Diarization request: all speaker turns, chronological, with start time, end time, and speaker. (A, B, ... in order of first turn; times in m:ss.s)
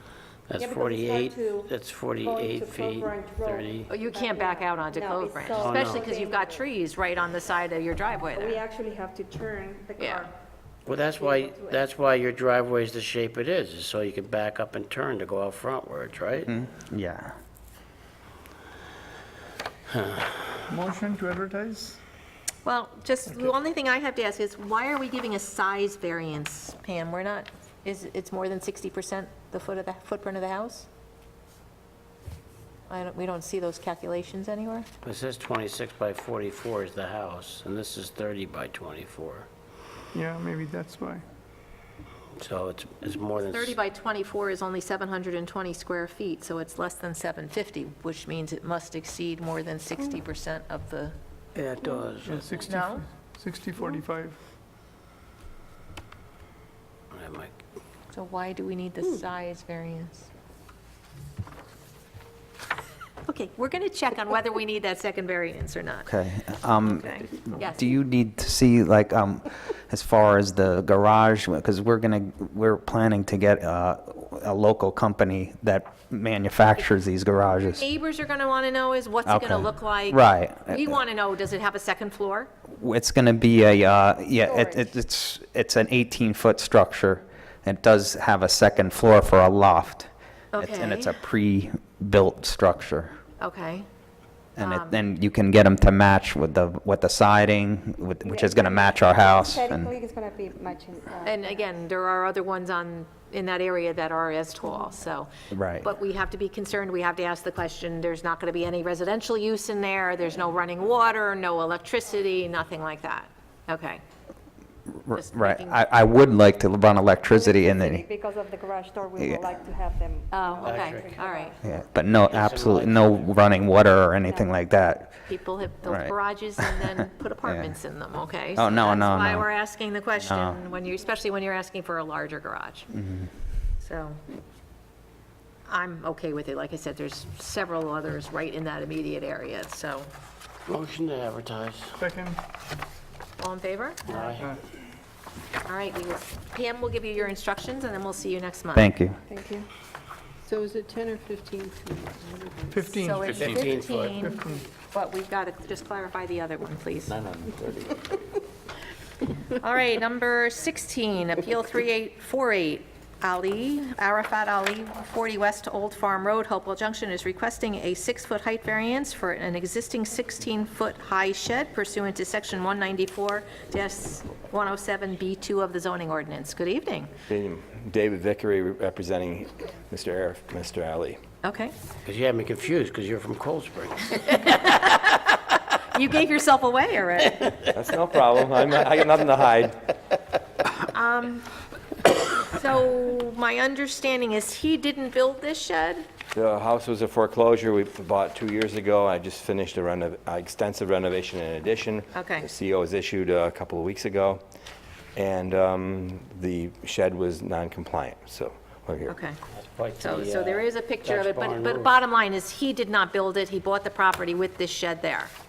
0:00.5-0:03.9 A
0:00.6-0:01.7 B
0:02.2-0:06.7 B
0:03.9-0:08.6 C
0:05.5-0:06.1 A
0:08.3-0:10.3 B
0:10.0-0:10.3 C
0:10.9-0:16.5 A
0:11.0-0:11.9 B
0:16.5-0:17.3 D
0:19.9-0:20.6 A
0:20.7-0:22.0 E
0:22.6-0:30.9 C
0:32.9-0:34.9 C
0:35.0-0:39.5 A
0:40.1-0:41.2 E
0:42.4-0:43.8 A
0:43.5-0:51.2 C
0:51.6-0:52.8 A
0:52.2-0:54.4 E
0:52.7-0:53.1 C
0:57.1-0:57.6 A
0:58.1-1:00.3 C
1:03.3-1:06.1 C
1:06.0-1:17.8 D
1:06.8-1:07.9 C
1:17.6-1:22.5 C
1:19.3-1:21.0 D
1:22.8-1:33.2 D
1:24.4-1:24.9 B
1:30.5-1:31.2 C
1:33.4-1:33.9 C
1:34.6-1:39.9 D
1:34.6-1:35.0 C
1:38.2-1:41.6 B
1:41.2-1:54.0 C
1:45.5-1:45.9 D
1:54.9-1:58.0 D
1:55.1-1:55.8 C
1:57.3-2:01.6 B
1:59.2-1:59.5 D
2:00.3-2:01.6 C
2:00.6-2:01.2 A
2:01.6-2:05.2 D
2:02.3-2:03.3 A
2:04.3-2:04.5 B
2:05.3-2:12.9 C
2:05.9-2:06.2 D
2:07.4-2:07.8 D
2:08.6-2:09.5 D
2:10.2-2:10.6 D
2:12.9-2:13.3 D
2:13.8-2:14.2 C
2:15.7-2:20.1 C
2:20.7-2:22.0 A
2:22.0-2:22.4 E
2:23.4-2:24.3 C
2:24.1-2:24.6 A
2:25.6-2:28.9 C
2:28.7-2:29.2 D
2:29.3-2:29.7 B
2:30.5-2:32.9 F
2:32.7-2:33.5 E
2:32.9-2:37.2 C
2:33.2-2:34.3 A
2:34.3-2:34.6 E
2:37.3-2:37.7 A
2:39.6-2:57.1 C
2:57.3-3:01.2 G
3:01.4-3:01.7 C
3:02.0-3:04.4 A
3:04.3-3:07.6 C
3:07.7-3:09.8 G
3:10.8-3:11.5 C
3:12.3-3:16.0 C
3:16.3-3:24.4 G
3:22.1-3:22.5 C
3:25.2-3:29.2 G
3:29.1-3:29.4 C
3:29.5-3:31.9 A
3:30.0-3:35.3 C